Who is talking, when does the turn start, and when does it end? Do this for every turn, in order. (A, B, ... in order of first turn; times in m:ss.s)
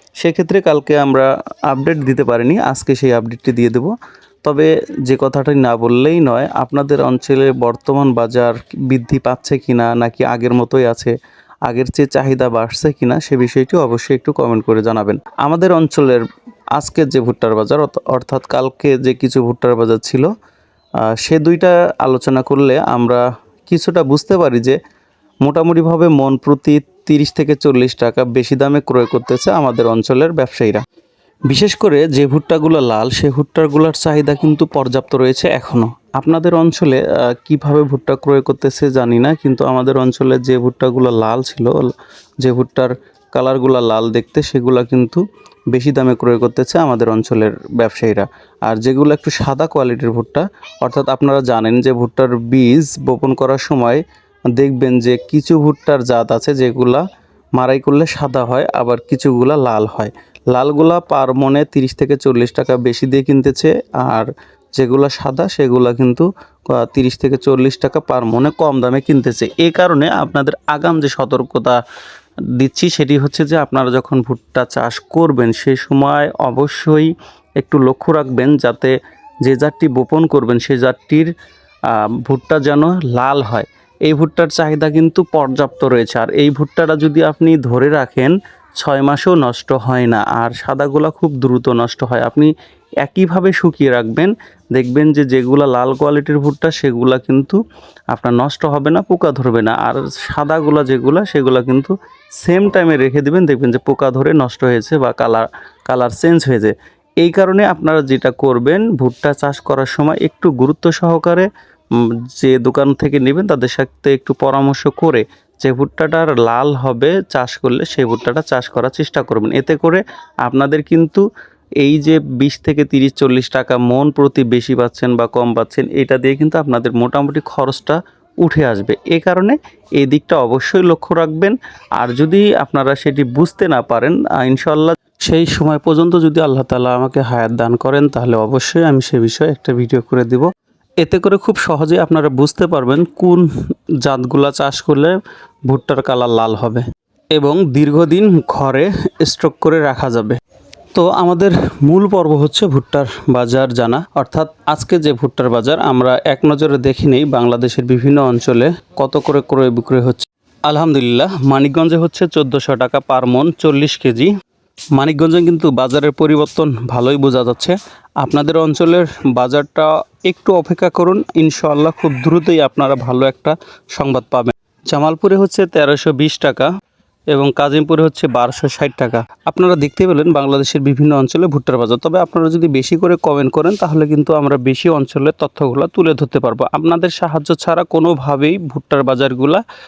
0:00.2-0:03.9 A
0:04.4-0:11.1 A
0:11.7-0:16.2 A
0:16.8-0:20.3 A
0:21.2-0:24.8 A
0:25.4-0:30.8 A
0:31.5-0:41.9 A
0:42.4-0:54.0 A
0:54.6-0:57.0 A
0:57.6-1:11.8 A
1:12.5-1:21.3 A
1:21.9-1:32.5 A
1:33.0-1:37.6 A
1:38.1-1:51.5 A
1:52.4-2:01.2 A
2:01.8-2:20.5 A
2:21.0-2:23.5 A
2:24.0-2:25.2 A
2:25.7-2:26.8 A
2:27.3-2:30.4 A
2:30.9-2:44.3 A
2:44.9-2:56.7 A
2:57.3-3:09.6 A